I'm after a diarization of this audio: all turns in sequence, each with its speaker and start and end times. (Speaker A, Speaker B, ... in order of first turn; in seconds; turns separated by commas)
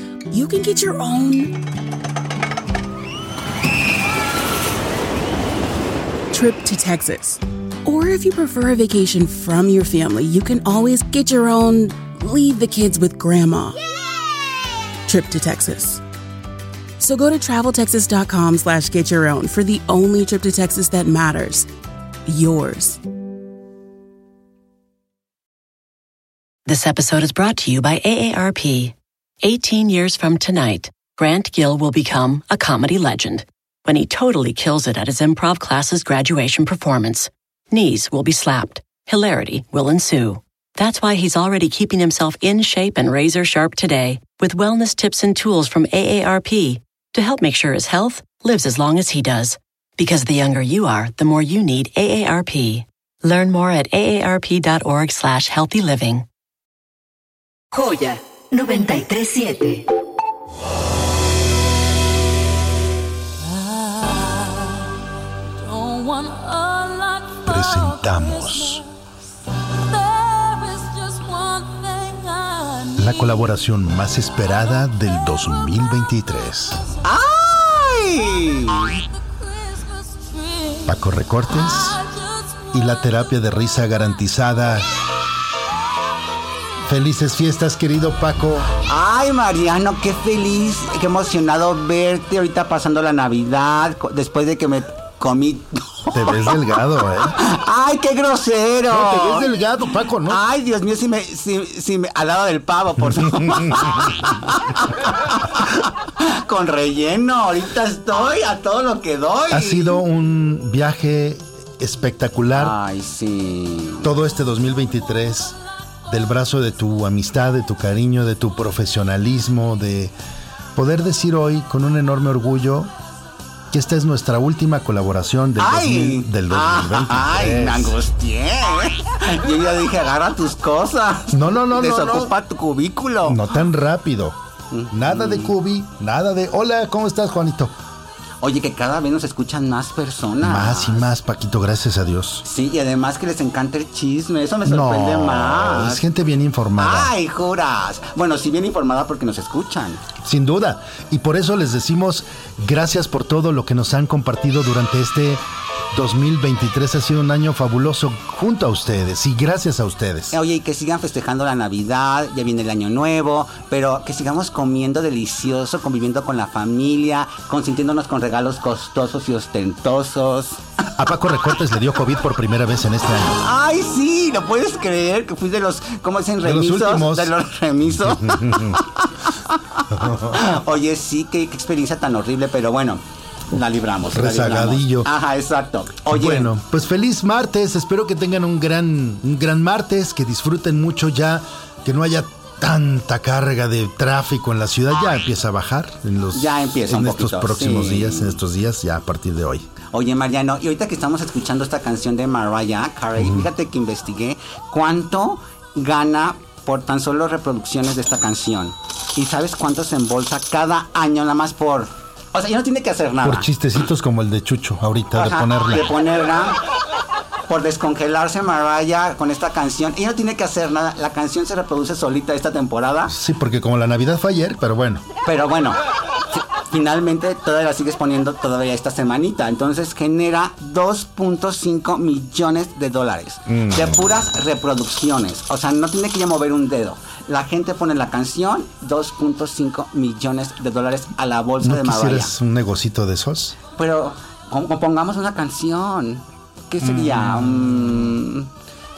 Speaker A: 0.3-1.6, Speaker A: 6.3-13.8, Speaker A: 15.1-16.0, Speaker A: 17.0-21.7, Speaker A: 22.3-23.0, Speaker B: 26.7-56.2, Speaker C: 57.7-59.9, Speaker D: 67.4-68.8, Speaker D: 72.9-76.8, Speaker E: 77.0-79.0, Speaker D: 80.8-82.0, Speaker D: 82.7-85.0, Speaker D: 86.8-88.7, Speaker E: 88.8-96.7, Speaker D: 96.1-97.4, Speaker E: 97.3-99.6, Speaker D: 98.9-100.4, Speaker E: 100.2-110.0, Speaker D: 103.0-104.3, Speaker D: 109.5-112.7, Speaker E: 112.5-114.1, Speaker D: 114.0-115.5, Speaker D: 116.1-120.1, Speaker D: 120.7-122.9, Speaker D: 123.7-128.0, Speaker E: 125.6-133.5, Speaker D: 131.3-132.3, Speaker D: 133.2-134.4, Speaker E: 134.7-135.5, Speaker D: 134.9-137.8, Speaker E: 138.4-141.1, Speaker D: 140.4-142.4, Speaker E: 142.4-146.0, Speaker D: 144.6-147.1, Speaker E: 146.8-150.0, Speaker D: 150.2-160.3, Speaker E: 160.3-170.6, Speaker D: 170.9-173.4, Speaker E: 173.4-186.5, Speaker D: 176.4-177.3, Speaker D: 177.9-178.8, Speaker D: 179.9-180.5, Speaker D: 184.1-185.1, Speaker D: 186.1-199.7, Speaker E: 196.3-198.4, Speaker E: 199.9-213.5, Speaker D: 203.2-203.5, Speaker D: 213.2-215.9, Speaker E: 215.1-216.6, Speaker E: 217.5-223.1, Speaker D: 223.1-225.0, Speaker E: 225.2-225.8, Speaker E: 226.3-242.3, Speaker D: 233.5-234.1, Speaker D: 241.6-243.6, Speaker E: 243.7-248.5, Speaker D: 246.8-248.0